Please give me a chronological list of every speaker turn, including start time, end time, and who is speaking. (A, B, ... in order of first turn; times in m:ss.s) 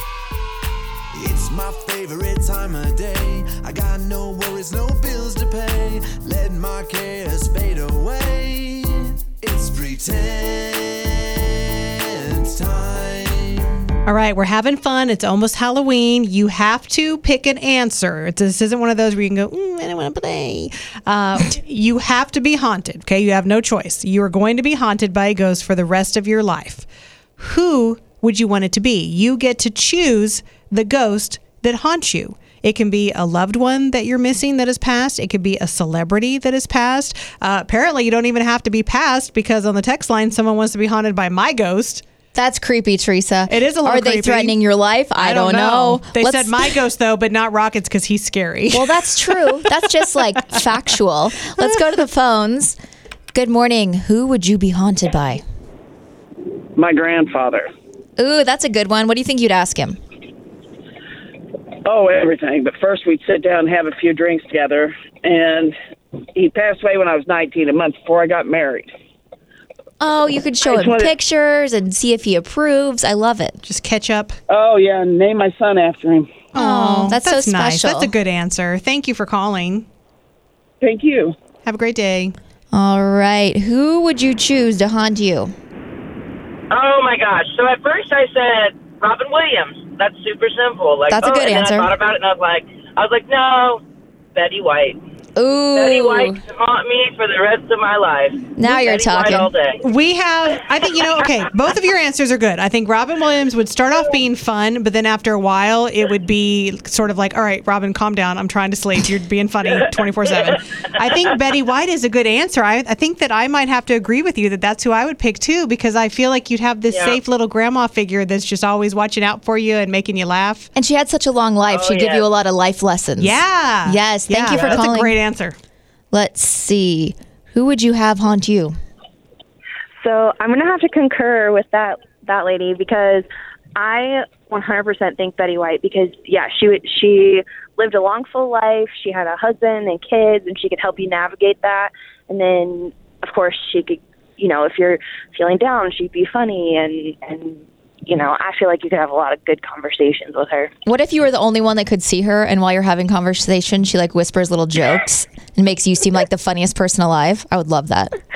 0:01.1-0:14.0 A
0:14.1-0:26.9 B
0:27.4-0:42.0 B
0:42.3-0:46.7 C
0:43.5-0:44.6 B
0:45.2-0:49.5 B
0:48.7-0:52.8 C
0:53.3-0:55.4 C
0:56.8-0:57.7 D
0:58.2-1:00.0 C
1:01.8-1:05.8 D
1:06.3-1:08.9 D
1:10.0-1:13.6 C
1:10.7-1:11.1 D
1:13.6-1:14.4 B
1:14.5-1:16.3 D
1:16.5-1:19.9 B
1:16.6-1:18.1 C
1:20.8-1:21.4 D
1:21.6-1:22.4 B
1:22.7-1:25.5 C
1:26.7-1:33.8 E
1:31.1-1:31.9 C
1:34.3-1:35.0 E
1:35.4-1:36.4 C
1:35.8-1:39.8 E
1:38.6-1:39.5 C
1:39.8-2:00.7 B
1:56.9-1:57.2 E
2:00.8-2:05.2 C
2:01.7-2:02.3 E
2:03.2-2:05.6 B
2:06.1-2:08.8 C
2:10.0-2:30.7 F
2:30.9-2:38.1 C